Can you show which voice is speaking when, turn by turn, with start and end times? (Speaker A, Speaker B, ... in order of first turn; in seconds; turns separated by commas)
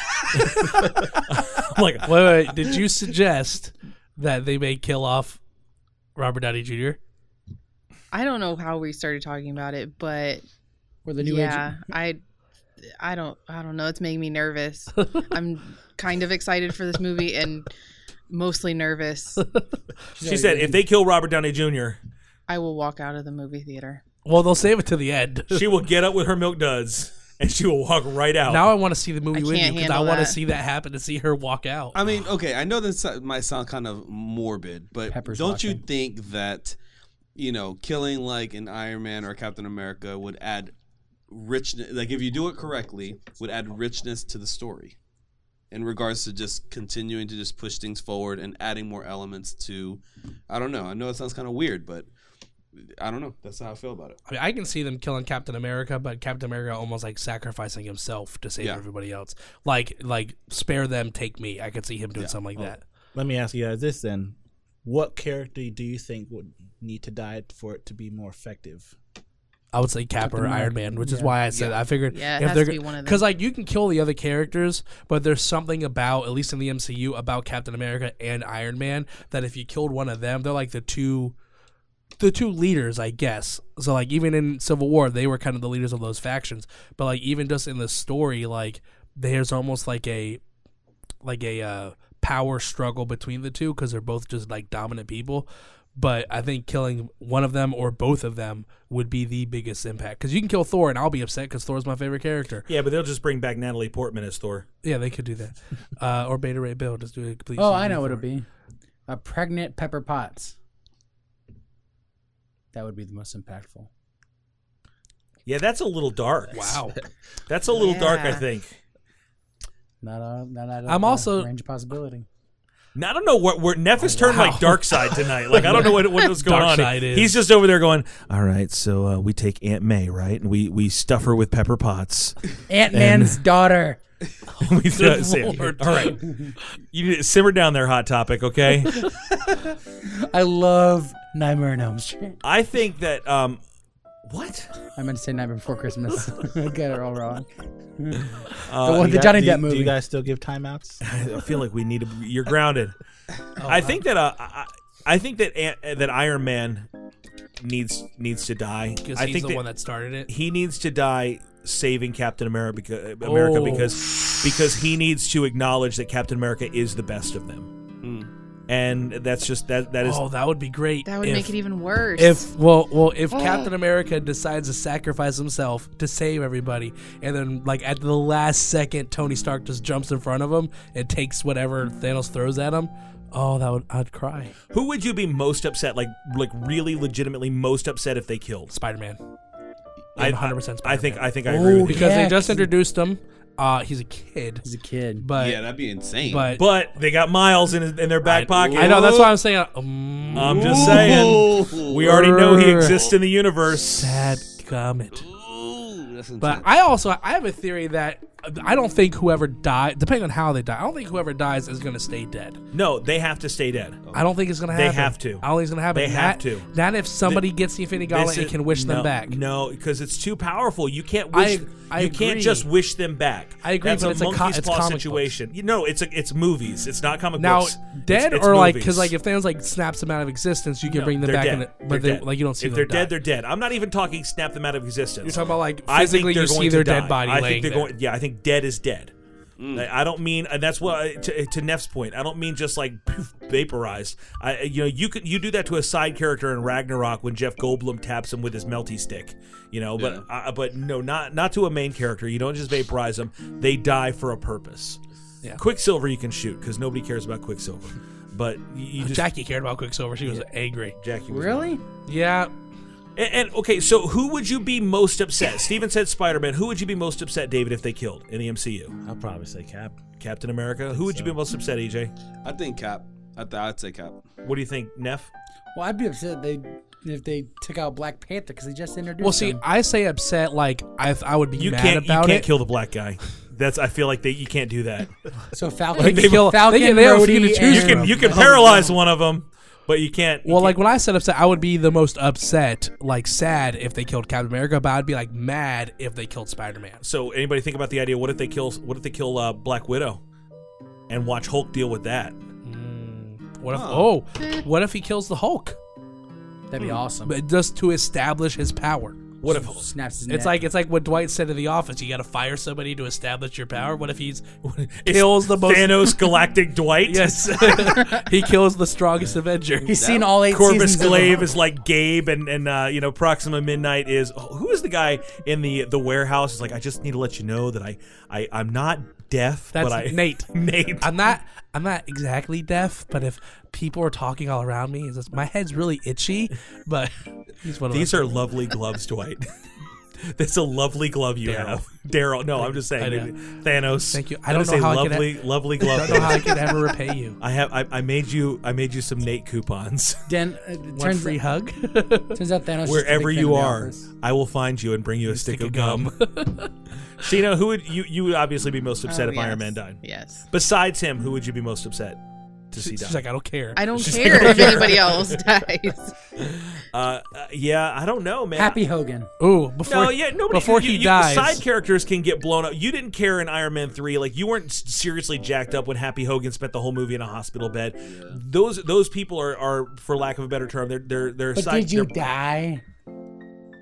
Speaker A: 0.3-2.5, Speaker B: 2.0-5.4, Speaker B: 6.2-7.0, Speaker C: 8.1-10.4, Speaker D: 11.0-11.8, Speaker C: 11.2-12.2, Speaker C: 13.0-17.7, Speaker C: 18.3-19.4, Speaker D: 20.1-20.8, Speaker A: 20.2-22.0, Speaker C: 22.5-24.0, Speaker B: 24.2-25.7, Speaker A: 25.5-28.7, Speaker B: 28.5-31.9, Speaker C: 29.3-30.4, Speaker E: 31.9-36.8, Speaker D: 35.1-35.8, Speaker E: 37.3-40.7, Speaker E: 41.3-45.0, Speaker E: 45.7-52.1, Speaker E: 52.7-54.2, Speaker B: 54.2-62.8, Speaker F: 62.6-68.9, Speaker B: 69.7-81.3, Speaker D: 70.2-71.3, Speaker C: 72.1-73.2, Speaker B: 82.2-90.4, Speaker B: 91.2-102.7, Speaker A: 102.7-104.7, Speaker B: 104.8-108.2, Speaker D: 107.6-108.5, Speaker D: 109.1-110.5, Speaker D: 112.7-113.9, Speaker A: 115.5-116.8, Speaker B: 116.5-117.0, Speaker A: 117.5-118.8, Speaker C: 117.7-118.4, Speaker D: 120.0-122.2, Speaker B: 120.9-121.5, Speaker A: 122.9-132.4, Speaker D: 124.0-124.6, Speaker B: 124.2-127.4, Speaker D: 132.7-134.0, Speaker A: 132.9-133.4, Speaker A: 134.6-136.2, Speaker B: 134.6-136.2, Speaker D: 136.1-136.5, Speaker A: 136.9-139.1, Speaker D: 140.1-142.3, Speaker A: 142.4-143.6, Speaker A: 144.3-144.7, Speaker D: 144.9-149.9, Speaker A: 148.7-149.2, Speaker F: 148.8-151.0, Speaker A: 151.0-152.9, Speaker B: 153.6-154.0, Speaker A: 153.6-156.9, Speaker A: 157.6-159.6, Speaker B: 159.0-160.3, Speaker A: 160.3-167.7, Speaker B: 163.2-163.9, Speaker E: 168.0-168.3, Speaker A: 168.7-170.2, Speaker B: 170.0-171.5, Speaker C: 171.0-172.5, Speaker B: 172.2-184.5, Speaker A: 184.7-188.7, Speaker B: 188.7-189.2, Speaker B: 190.2-191.3, Speaker A: 190.2-192.1, Speaker D: 191.4-192.7, Speaker B: 191.8-194.6, Speaker D: 194.6-195.3, Speaker B: 195.2-195.6, Speaker E: 195.3-196.5, Speaker B: 196.2-196.6, Speaker A: 196.5-199.3, Speaker B: 198.2-201.5, Speaker E: 198.4-199.3, Speaker E: 200.3-202.1, Speaker A: 200.3-204.1, Speaker B: 202.0-203.0, Speaker B: 204.0-205.2, Speaker E: 205.1-206.7, Speaker B: 206.4-212.6, Speaker A: 212.7-214.0, Speaker B: 214.1-219.4, Speaker A: 214.7-216.7, Speaker A: 218.0-229.1, Speaker B: 221.3-222.7, Speaker B: 223.6-225.3, Speaker B: 227.4-233.1, Speaker A: 230.8-239.1, Speaker E: 235.2-235.6, Speaker B: 235.2-237.9, Speaker E: 239.6-239.9, Speaker A: 239.7-255.0, Speaker E: 250.0-250.2, Speaker A: 255.6-259.2, Speaker B: 259.0-261.0, Speaker A: 261.0-261.7, Speaker D: 261.3-261.8, Speaker B: 262.1-262.5, Speaker A: 263.1-268.9, Speaker F: 269.0-270.0, Speaker A: 270.2-272.1, Speaker F: 270.9-271.4, Speaker E: 272.4-274.2, Speaker A: 274.4-275.3, Speaker D: 275.7-279.6, Speaker B: 279.2-282.5, Speaker A: 281.6-285.1, Speaker D: 285.5-289.0, Speaker B: 285.9-288.4, Speaker A: 286.0-286.6, Speaker A: 287.6-290.8, Speaker B: 290.4-297.0, Speaker A: 297.0-300.2, Speaker A: 301.1-302.4, Speaker B: 302.6-305.8, Speaker E: 303.7-304.1, Speaker D: 306.7-307.3, Speaker B: 307.2-309.2, Speaker A: 309.4-309.9, Speaker D: 309.4-310.6, Speaker B: 310.3-314.5, Speaker A: 314.6-317.8, Speaker B: 315.1-316.4, Speaker B: 317.0-319.9, Speaker D: 319.8-321.6, Speaker E: 319.9-320.3, Speaker A: 320.5-331.1, Speaker B: 329.7-338.4, Speaker A: 337.9-339.4, Speaker A: 340.2-346.7, Speaker B: 341.4-341.8, Speaker B: 342.6-343.3, Speaker B: 344.1-347.4, Speaker A: 347.4-350.2, Speaker D: 350.3-351.4, Speaker B: 350.9-352.4, Speaker D: 352.3-354.1, Speaker A: 352.8-356.1, Speaker B: 355.3-356.7, Speaker A: 357.2-362.2, Speaker C: 359.1-360.5, Speaker A: 362.7-363.2, Speaker B: 362.8-365.1, Speaker C: 363.8-366.1, Speaker A: 363.9-365.3, Speaker A: 366.4-368.8, Speaker D: 368.5-369.3, Speaker B: 369.4-371.6, Speaker A: 369.9-382.1, Speaker E: 378.0-378.4, Speaker D: 381.5-382.8